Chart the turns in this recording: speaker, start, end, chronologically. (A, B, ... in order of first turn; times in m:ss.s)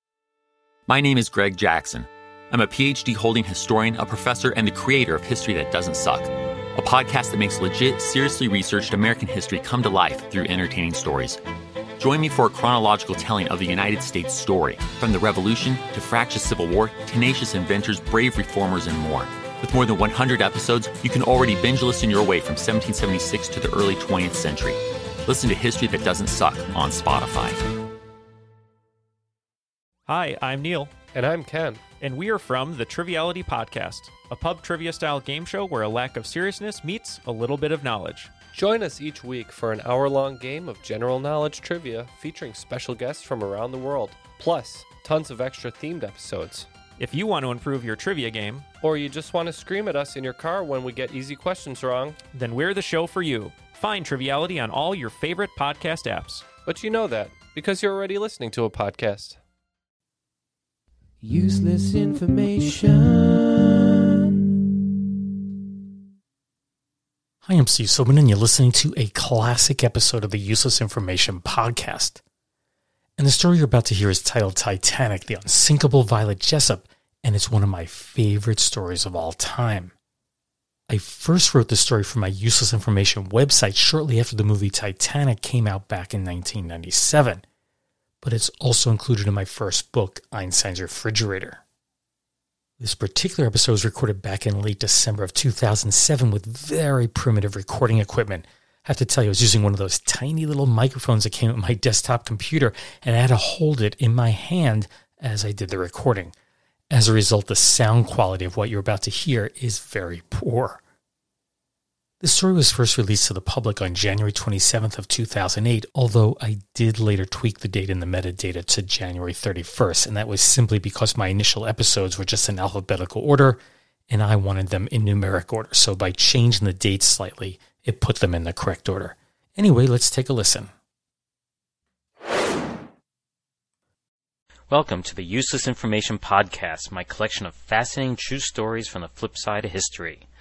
0:00.9-0:11.4 A
0:12.0-0:27.6 A
0:30.1-0:31.0 B
0:31.1-0:31.8 C
0:32.0-0:38.3 B
0:38.5-0:46.7 C
0:47.0-0:48.7 B
0:48.8-0:52.2 C
0:52.3-0:56.4 B
0:56.7-0:59.4 C
1:01.2-1:04.5 D
1:07.5-1:12.2 E
1:13.2-1:19.9 E
1:20.9-1:27.4 E
1:28.2-1:31.6 E
1:32.8-1:46.3 E
1:46.9-1:50.8 E
1:52.2-2:03.6 E
2:04.1-2:10.7 E
2:14.7-2:20.3 F